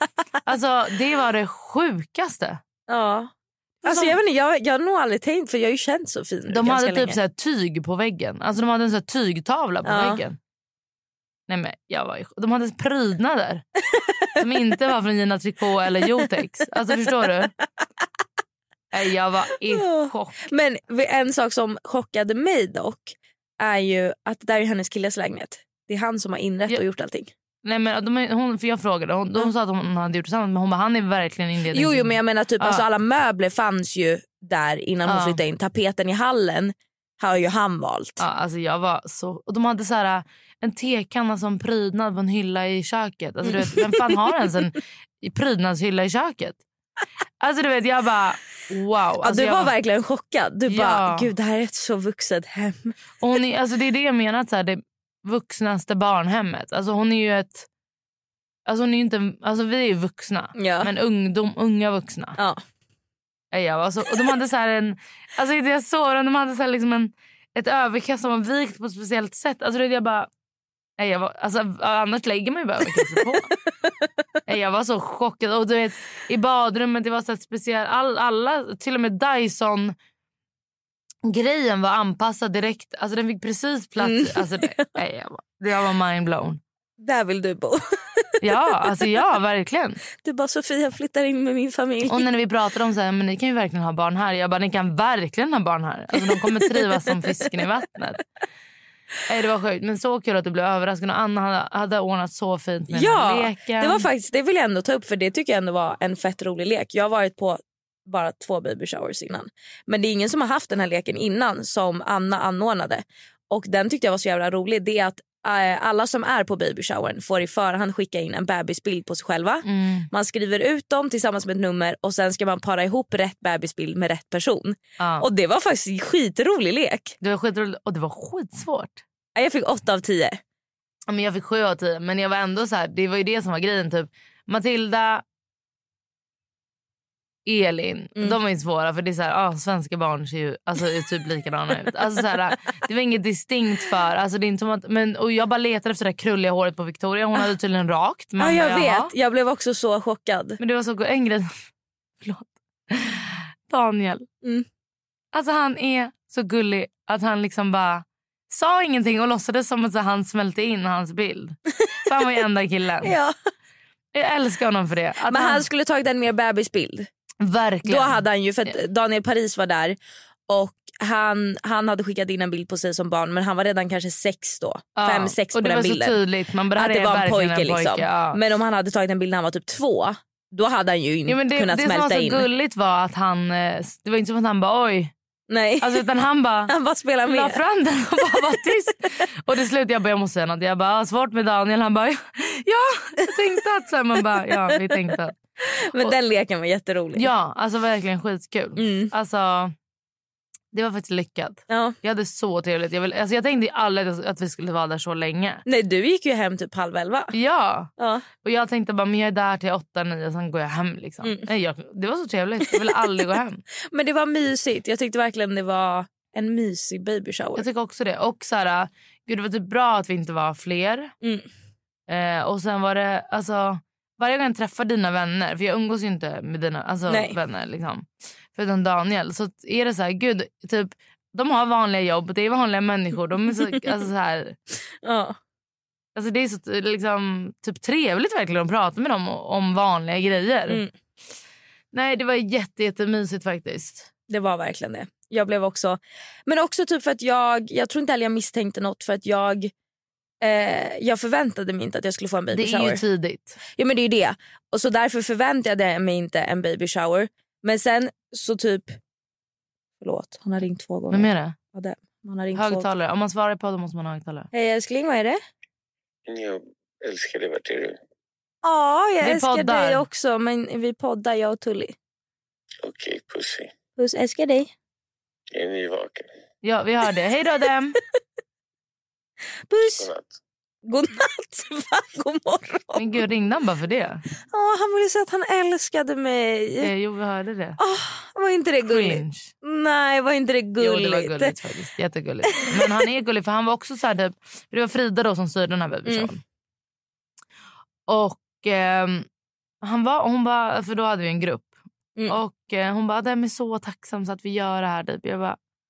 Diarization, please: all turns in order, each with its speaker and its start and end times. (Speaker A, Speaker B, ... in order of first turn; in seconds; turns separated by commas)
Speaker A: 0.5-2.6, Speaker B: 2.9-3.3, Speaker A: 3.8-4.2, Speaker B: 3.8-7.2, Speaker A: 6.5-10.4, Speaker B: 9.8-10.2, Speaker A: 11.5-13.6, Speaker B: 13.9-14.2, Speaker A: 14.3-17.5, Speaker A: 18.9-20.5, Speaker B: 19.7-27.3, Speaker A: 27.6-32.8, Speaker B: 31.7-38.2, Speaker A: 35.1-35.4, Speaker A: 38.2-46.6, Speaker B: 43.5-44.1, Speaker A: 47.4-49.7, Speaker B: 49.2-52.9, Speaker A: 50.7-51.3, Speaker A: 53.2-57.7, Speaker A: 58.7-62.4, Speaker B: 60.5-60.9, Speaker B: 62.4-62.6, Speaker A: 63.5-70.3, Speaker A: 71.0-73.5, Speaker A: 74.5-79.9, Speaker A: 81.2-86.6, Speaker B: 84.0-84.9, Speaker B: 87.0-88.5, Speaker A: 88.4-90.0, Speaker B: 90.1-92.3, Speaker A: 92.1-98.2, Speaker B: 96.3-97.1, Speaker A: 99.3-104.0, Speaker B: 102.9-127.1, Speaker A: 119.7-120.1, Speaker A: 125.0-125.3, Speaker A: 127.2-129.0, Speaker B: 129.3-130.4, Speaker A: 131.1-135.2, Speaker A: 137.4-149.1, Speaker B: 148.4-150.6, Speaker A: 150.6-151.5, Speaker A: 152.2-154.3, Speaker A: 155.3-163.1, Speaker B: 163.0-163.3, Speaker A: 164.1-165.6, Speaker B: 165.3-167.1, Speaker A: 167.4-168.2, Speaker B: 167.8-170.0, Speaker B: 170.5-176.2, Speaker A: 175.0-178.4, Speaker B: 176.8-182.5, Speaker A: 181.3-185.1, Speaker B: 185.5-186.1, Speaker A: 185.8-186.7, Speaker B: 186.7-187.6, Speaker A: 187.3-195.4, Speaker B: 195.7-197.3, Speaker A: 197.2-199.7, Speaker B: 198.8-199.1, Speaker A: 200.7-205.6, Speaker B: 201.7-201.9, Speaker B: 205.6-207.3, Speaker A: 207.3-207.9, Speaker B: 208.0-208.2, Speaker A: 208.4-213.6, Speaker B: 212.7-213.0, Speaker B: 213.9-217.7, Speaker A: 217.6-221.1, Speaker B: 221.2-221.5, Speaker A: 222.1-234.6, Speaker B: 227.1-227.3, Speaker B: 235.0-235.4, Speaker A: 236.2-240.8, Speaker A: 241.9-244.1, Speaker B: 244.3-249.7, Speaker B: 250.4-253.0, Speaker A: 252.5-253.6, Speaker B: 253.8-259.0, Speaker B: 260.0-262.9, Speaker A: 261.1-261.6, Speaker A: 262.5-264.5, Speaker B: 264.5-265.4, Speaker C: 266.3-267.9, Speaker B: 268.6-271.9, Speaker A: 269.2-270.0, Speaker C: 272.8-273.7, Speaker B: 274.0-274.7, Speaker C: 275.5-276.2, Speaker A: 276.6-278.0, Speaker B: 279.7-280.1, Speaker C: 280.0-280.3, Speaker B: 280.9-283.2, Speaker A: 282.9-284.2, Speaker B: 284.5-286.9, Speaker A: 286.8-287.8, Speaker B: 287.8-291.5, Speaker A: 288.9-289.5, Speaker A: 290.8-296.4, Speaker B: 292.6-292.9, Speaker B: 296.1-296.3, Speaker A: 298.1-299.3, Speaker A: 299.8-301.7, Speaker A: 302.3-305.6